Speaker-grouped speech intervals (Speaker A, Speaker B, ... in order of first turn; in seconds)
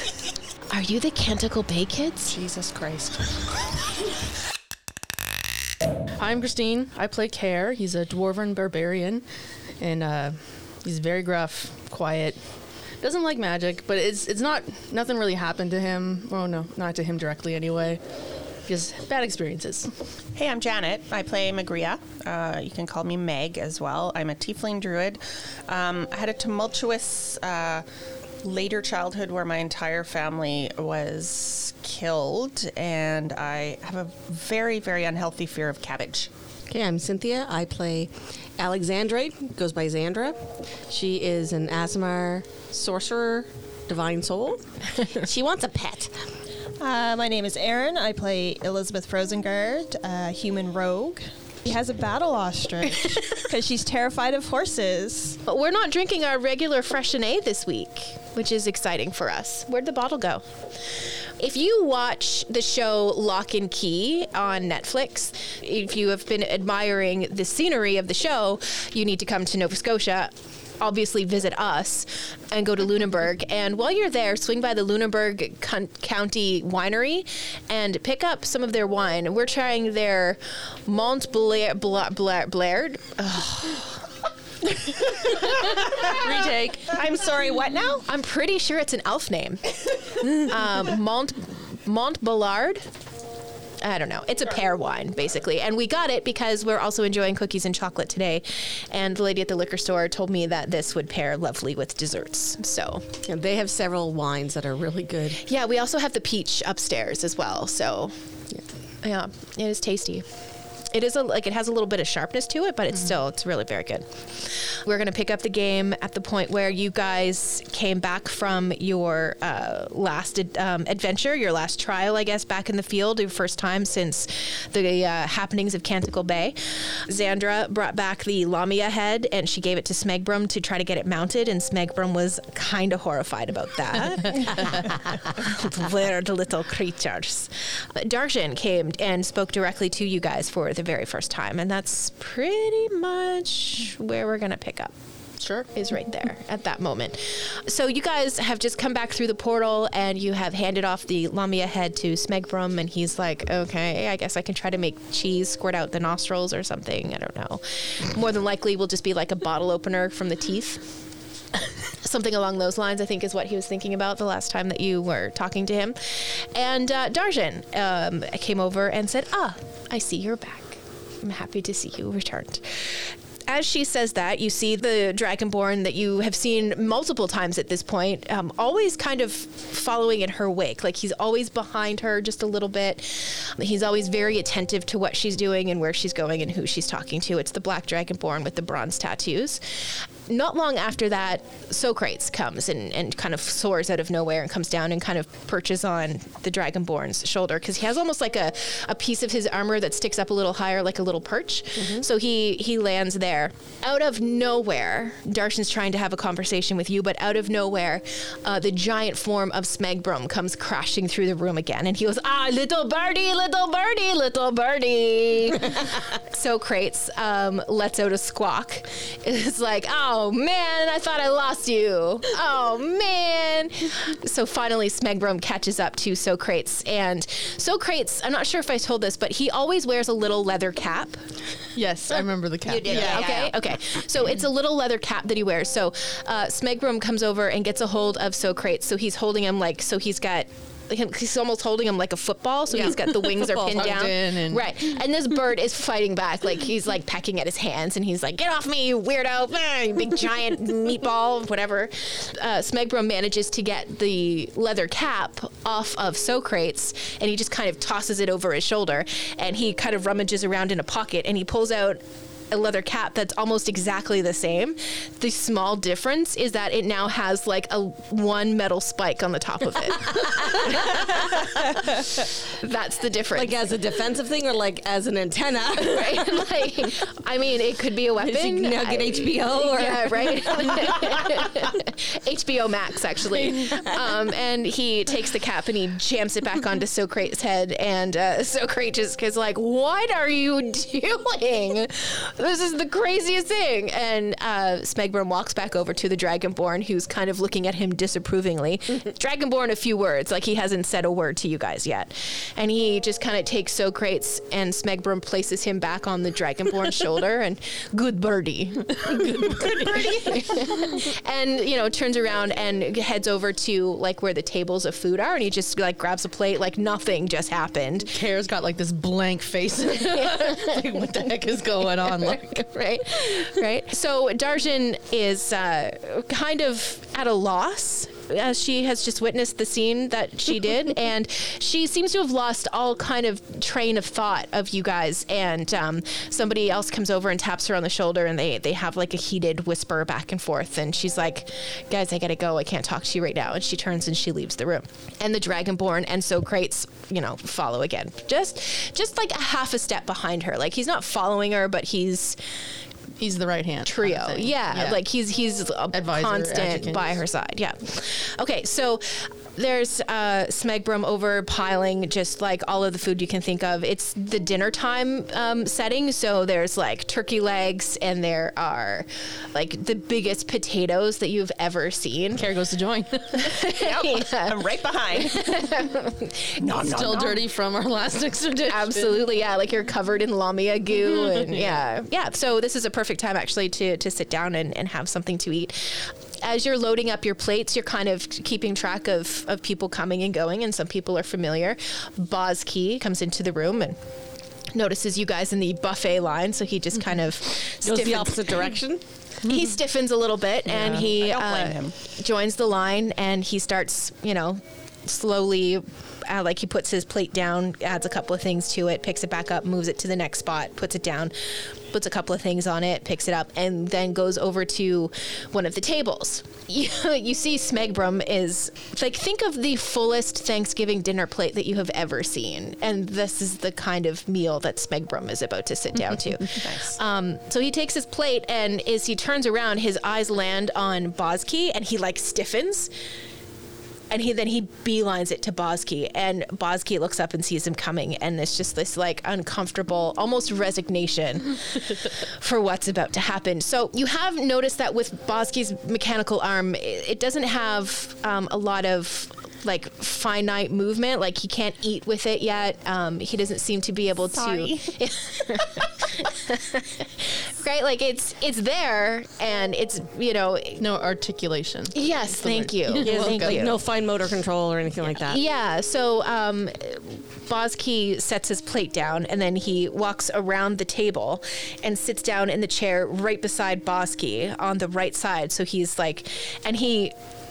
Speaker A: 0.7-2.3, 55.5-60.4, 61.4-83.9, 88.1-92.8, 93.8-103.0, 105.4-108.1, 109.0-110.2, 110.9-144.9, 145.7-160.8, 161.9-189.6, 190.3-231.2, 232.9-273.7, 275.8-318.1, 322.3-352.4, 353.8-372.4, 373.3-374.6, 375.1-376.5, 378.7-394.0, 394.7-398.5, 399.4-432.9, 434.1-460.8, 461.9-463.8, 465.2-477.1
Speaker B: 2.3-3.3, 20.3-27.8, 28.4-36.3, 85.1-88.0, 232.8-233.5, 373.6-375.8, 376.6-377.4, 400.7-401.9, 426.6-427.0, 454.3-454.9
Speaker C: 6.2-9.2, 9.8-12.4, 13.0-18.0, 18.6-19.9, 86.3-86.7, 145.4-145.7, 231.7-233.3, 242.8-244.8, 309.0-310.4, 318.1-322.7, 353.2-355.0, 355.9-357.2, 372.3-373.5, 376.7-379.3, 381.2-381.8, 460.8-463.8
Speaker D: 36.7-46.1, 103.2-105.4, 273.3-276.5, 278.2-281.5, 283.4-283.9, 397.8-399.0, 463.0-465.4
Speaker E: 46.8-55.4